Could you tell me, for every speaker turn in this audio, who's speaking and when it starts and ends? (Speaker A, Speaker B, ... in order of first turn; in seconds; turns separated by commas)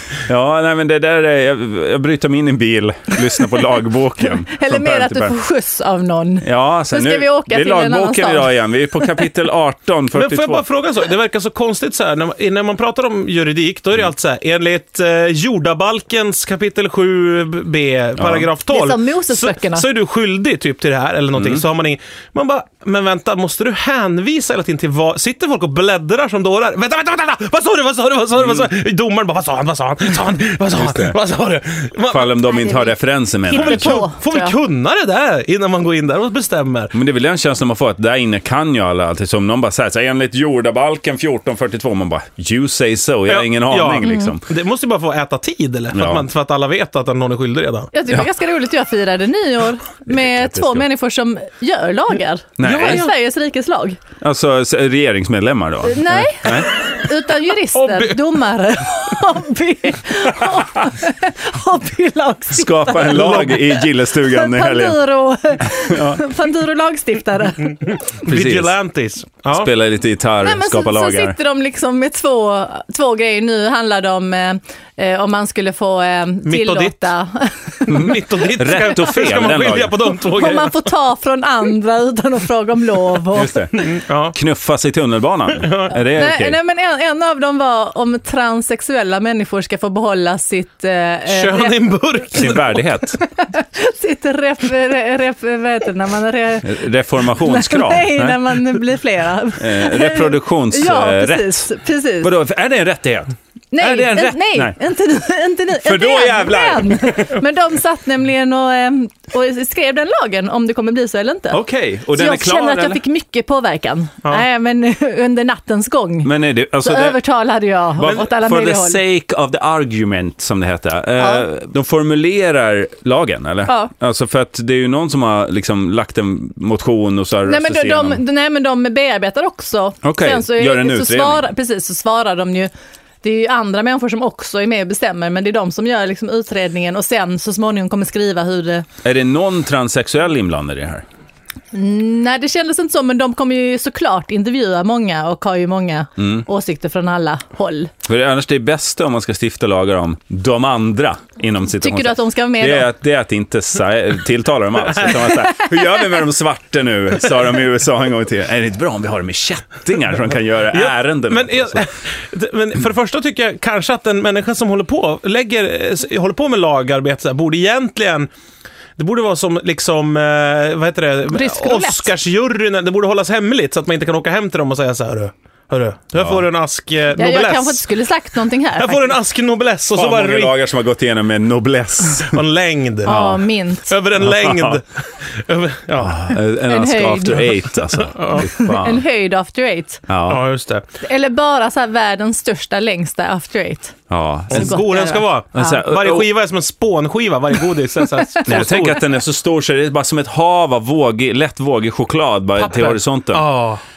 Speaker A: 0.3-5.3, Speaker B: 4.5-9.1, Speaker A: 6.4-10.6, Speaker C: 10.1-32.3, Speaker A: 18.2-18.5, Speaker B: 18.7-19.9, Speaker A: 21.4-21.6, Speaker A: 30.8-31.2, Speaker A: 32.1-34.0, Speaker B: 32.5-32.9, Speaker B: 33.5-34.5, Speaker C: 33.5-36.9, Speaker A: 36.9-44.4, Speaker C: 43.3-47.9, Speaker B: 44.0-44.3, Speaker A: 45.9-46.3, Speaker B: 47.9-54.0, Speaker A: 50.1-50.9, Speaker A: 52.6-53.1, Speaker C: 52.6-53.1, Speaker A: 54.2-56.7, Speaker B: 55.8-68.0, Speaker C: 57.7-58.2, Speaker A: 62.5-65.0, Speaker C: 63.1-63.5, Speaker A: 65.6-66.2, Speaker C: 68.1-69.7, Speaker A: 68.3-68.7, Speaker A: 69.5-71.4, Speaker B: 70.4-79.4, Speaker C: 76.5-77.1, Speaker C: 77.9-80.9, Speaker A: 77.9-80.0, Speaker B: 80.2-83.7, Speaker A: 83.3-83.7, Speaker C: 83.8-84.3, Speaker A: 84.3-86.6, Speaker C: 85.5-85.9, Speaker B: 86.1-91.8, Speaker C: 91.3-92.8, Speaker A: 92.3-93.2, Speaker B: 93.3-102.3, Speaker A: 96.6-98.5, Speaker A: 99.6-101.7, Speaker A: 102.2-104.8, Speaker B: 103.7-111.6, Speaker A: 105.8-107.3, Speaker A: 111.5-113.0, Speaker B: 112.2-119.0, Speaker A: 116.2-117.2, Speaker A: 118.0-128.2, Speaker B: 121.2-121.5, Speaker B: 123.7-123.9, Speaker B: 127.5-132.7, Speaker A: 130.0-131.5, Speaker B: 133.2-138.9, Speaker A: 139.0-141.0, Speaker B: 141.7-147.9, Speaker A: 146.2-146.4, Speaker A: 148.1-161.8, Speaker B: 151.8-152.9, Speaker C: 160.7-168.3, Speaker C: 169.0-177.8, Speaker B: 171.3-172.1, Speaker A: 176.2-176.4, Speaker B: 177.1-179.1, Speaker C: 178.8-180.6, Speaker A: 179.9-182.4, Speaker C: 182.2-183.2, Speaker B: 183.1-183.9, Speaker A: 183.1-183.4, Speaker C: 183.9-186.2, Speaker A: 184.2-184.8, Speaker A: 186.0-189.0, Speaker B: 186.7-187.8, Speaker C: 188.1-188.5, Speaker B: 188.3-190.0, Speaker A: 190.1-190.4, Speaker C: 190.3-190.8, Speaker B: 191.0-194.0, Speaker A: 194.1-194.9, Speaker B: 194.5-195.7, Speaker C: 194.5-199.0, Speaker A: 195.5-196.3, Speaker A: 198.4-203.4, Speaker C: 202.6-203.8